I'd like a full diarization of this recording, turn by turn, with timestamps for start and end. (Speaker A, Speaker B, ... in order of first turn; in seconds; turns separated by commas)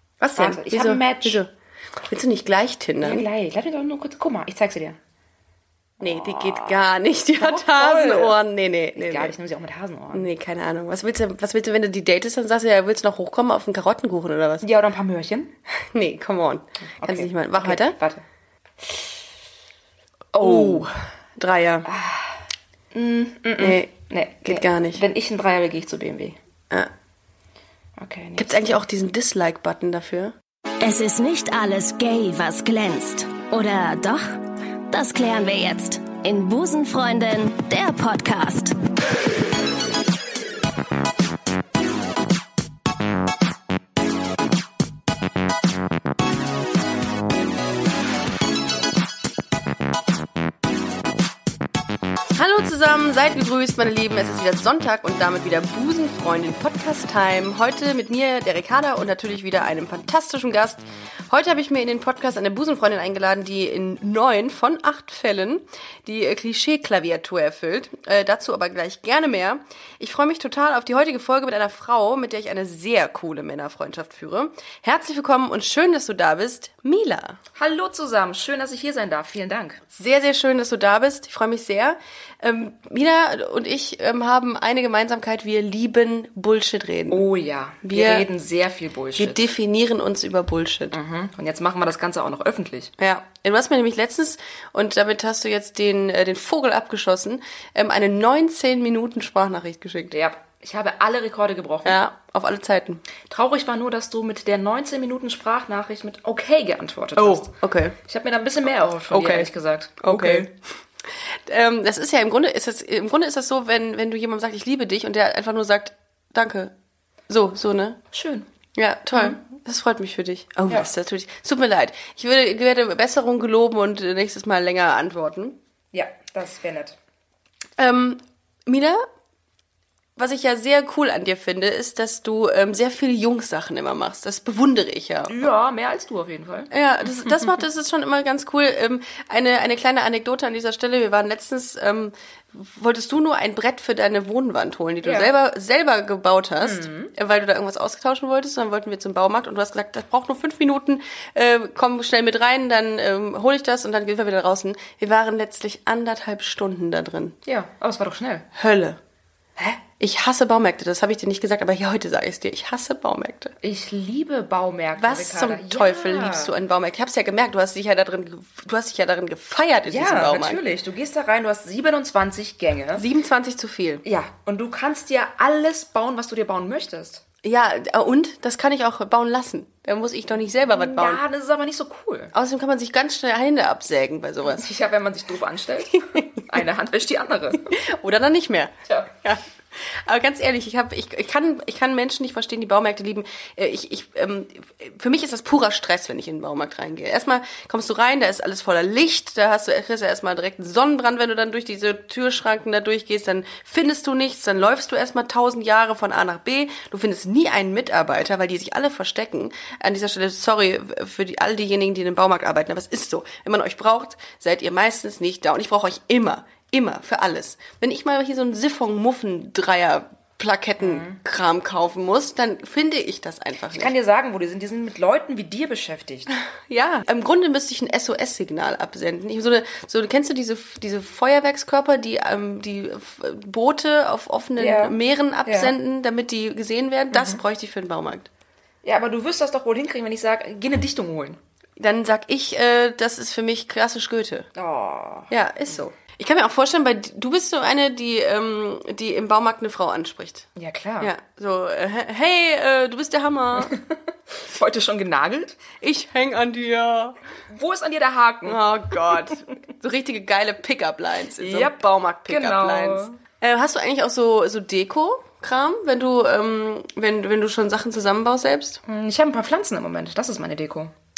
Speaker A: 0.2-1.5, Speaker B: 0.4-1.4, Speaker A: 2.1-3.3, Speaker B: 3.0-5.0, Speaker A: 6.0-9.3, Speaker B: 6.0-6.8, Speaker B: 7.4-8.4, Speaker B: 8.9-10.3, Speaker A: 10.1-14.7, Speaker B: 14.6-15.5, Speaker A: 15.9-18.0, Speaker B: 17.0-18.2, Speaker B: 20.3-20.9, Speaker A: 20.4-21.9, Speaker B: 21.9-22.4, Speaker B: 22.9-26.4, Speaker A: 23.6-25.0, Speaker B: 28.0-28.7, Speaker A: 28.4-30.3, Speaker C: 30.8-38.8, Speaker A: 52.4-77.4, Speaker B: 77.5-79.8, Speaker A: 79.9-87.3, Speaker B: 87.1-89.5, Speaker A: 87.8-88.3, Speaker A: 89.2-91.0, Speaker B: 90.9-92.9, Speaker A: 93.0-100.1, Speaker B: 100.1-102.0, Speaker A: 101.8-103.0, Speaker B: 103.3-110.5, Speaker A: 107.2-108.0, Speaker A: 109.1-110.5, Speaker A: 111.2-116.7, Speaker A: 117.3-118.0, Speaker B: 118.1-118.5, Speaker A: 118.8-125.6, Speaker B: 119.2-119.4, Speaker B: 125.9-127.0, Speaker A: 127.8-129.0, Speaker A: 130.2-135.5, Speaker B: 135.3-137.5, Speaker A: 136.7-157.4, Speaker B: 145.0-145.3, Speaker B: 146.6-147.1, Speaker B: 157.4-158.5, Speaker A: 158.6-159.0, Speaker A: 160.0-163.6, Speaker B: 163.6-166.5, Speaker A: 165.0-170.6, Speaker B: 169.9-173.1, Speaker A: 172.9-174.0, Speaker B: 174.1-177.2, Speaker A: 177.4-181.2, Speaker B: 180.7-182.3, Speaker A: 182.3-184.7, Speaker B: 184.5-187.8, Speaker A: 187.7-223.9, Speaker B: 188.9-189.1, Speaker B: 220.8-221.2, Speaker B: 223.7-226.3, Speaker A: 226.7-238.3, Speaker B: 234.6-235.8, Speaker B: 237.1-237.4, Speaker B: 238.8-241.4, Speaker A: 241.8-244.5, Speaker B: 244.6-245.8, Speaker A: 245.3-250.5, Speaker B: 250.6-251.1, Speaker A: 251.0-253.8, Speaker B: 253.6-255.6, Speaker A: 255.8-257.2, Speaker B: 257.5-259.3, Speaker A: 258.4-268.8, Speaker B: 261.4-263.2, Speaker B: 268.9-270.9